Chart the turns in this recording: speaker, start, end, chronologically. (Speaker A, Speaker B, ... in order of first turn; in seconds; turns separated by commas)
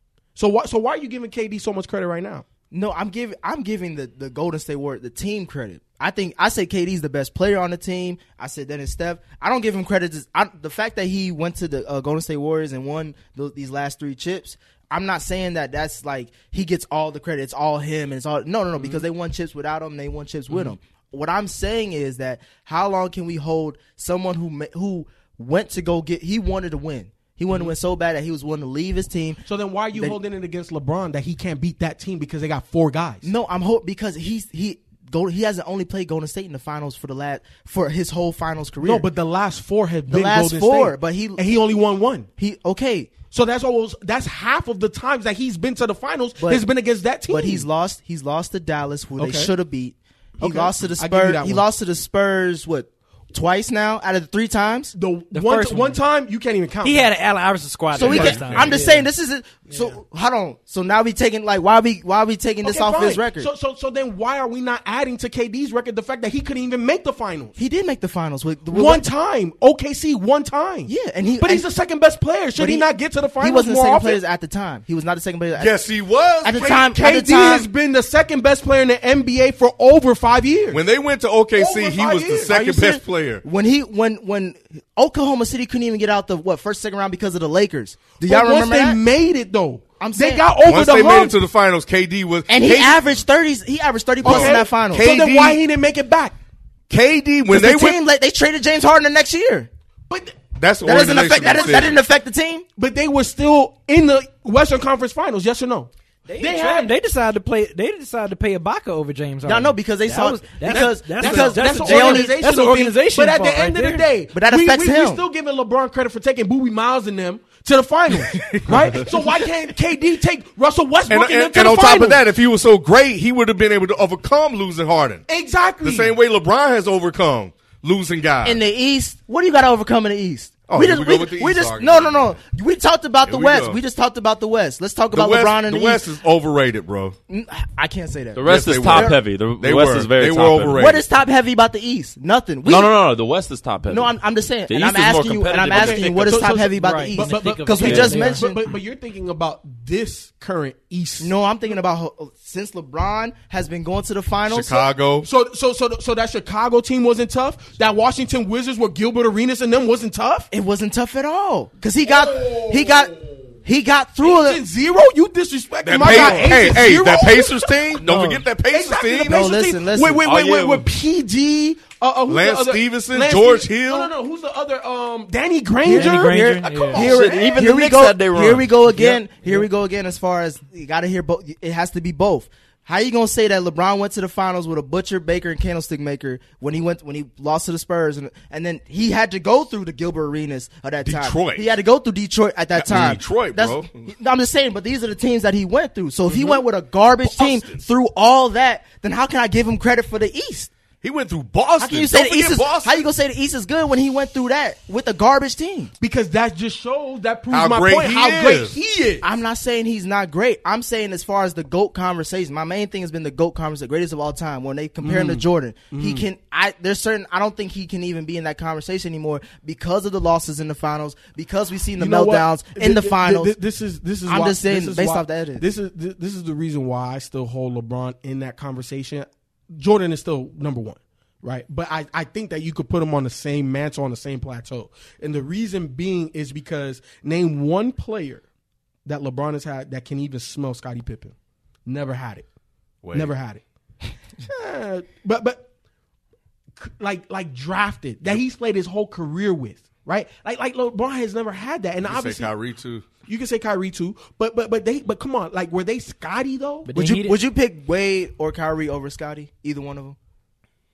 Speaker A: 0.3-2.4, Speaker B: 2.7-30.2, Speaker A: 18.8-19.0, Speaker A: 20.5-20.7, Speaker A: 29.4-33.3, Speaker B: 33.2-39.1, Speaker A: 38.8-42.3, Speaker B: 40.1-41.6, Speaker B: 42.4-43.1, Speaker A: 43.3-47.7, Speaker B: 46.4-46.6, Speaker B: 47.3-54.9, Speaker A: 49.2-49.5, Speaker A: 50.4-51.6, Speaker A: 54.9-57.1, Speaker C: 55.3-56.0, Speaker C: 56.8-59.1, Speaker B: 57.9-63.5, Speaker D: 57.9-58.8, Speaker A: 58.1-58.5, Speaker C: 59.7-60.0, Speaker A: 62.6-67.5, Speaker B: 67.5-69.1, Speaker A: 68.7-74.2, Speaker B: 70.9-71.7, Speaker B: 72.5-75.8, Speaker D: 75.5-76.8, Speaker B: 76.4-77.7, Speaker A: 76.5-80.8, Speaker D: 80.7-83.4, Speaker A: 81.5-82.6, Speaker B: 82.4-89.0, Speaker A: 88.2-91.4, Speaker B: 90.0-90.5, Speaker D: 90.6-93.2, Speaker B: 92.5-95.1, Speaker D: 94.2-95.6, Speaker A: 94.2-96.3, Speaker D: 96.9-98.0, Speaker B: 97.5-99.7, Speaker A: 100.1-100.4, Speaker D: 100.5-102.0, Speaker B: 100.8-102.6, Speaker A: 101.2-102.0, Speaker A: 102.8-106.9, Speaker C: 106.3-114.0, Speaker B: 109.4-112.4, Speaker A: 110.6-122.2, Speaker B: 114.3-115.2, Speaker B: 118.3-118.7, Speaker D: 121.1-125.2, Speaker A: 125.3-126.2, Speaker D: 125.8-128.6, Speaker B: 128.4-136.1, Speaker D: 130.7-132.4, Speaker D: 133.2-133.8, Speaker D: 135.1-137.2, Speaker B: 137.3-139.2, Speaker E: 138.3-140.8, Speaker D: 138.4-141.0, Speaker B: 140.7-142.9, Speaker E: 142.6-144.2, Speaker B: 143.9-148.7, Speaker E: 144.7-146.6, Speaker A: 145.7-151.3, Speaker C: 146.7-148.5, Speaker E: 147.8-148.2, Speaker B: 151.2-154.9, Speaker D: 154.5-155.3, Speaker A: 155.2-160.5, Speaker B: 160.5-164.6, Speaker A: 162.0-163.5, Speaker A: 164.2-176.9, Speaker D: 165.8-169.5, Speaker B: 166.0-166.8, Speaker B: 168.1-168.4, Speaker B: 169.2-170.2, Speaker E: 170.2-170.9, Speaker D: 172.3-174.1, Speaker C: 175.8-177.1, Speaker B: 175.8-200.7, Speaker D: 176.8-177.2, Speaker E: 176.9-179.2, Speaker D: 191.0-191.7, Speaker D: 192.8-194.0, Speaker D: 197.2-197.8, Speaker D: 201.0-203.0, Speaker B: 201.8-205.9, Speaker A: 206.0-209.2, Speaker D: 207.5-208.8, Speaker B: 209.2-223.5, Speaker A: 215.0-216.2, Speaker A: 222.0-238.4, Speaker B: 224.3-225.6, Speaker A: 239.0-241.3, Speaker A: 241.8-242.4, Speaker D: 243.0-243.3, Speaker A: 243.1-243.6, Speaker A: 244.4-245.7, Speaker A: 246.8-252.5, Speaker D: 252.0-253.1, Speaker A: 253.2-256.9, Speaker C: 256.8-257.4, Speaker B: 256.9-260.1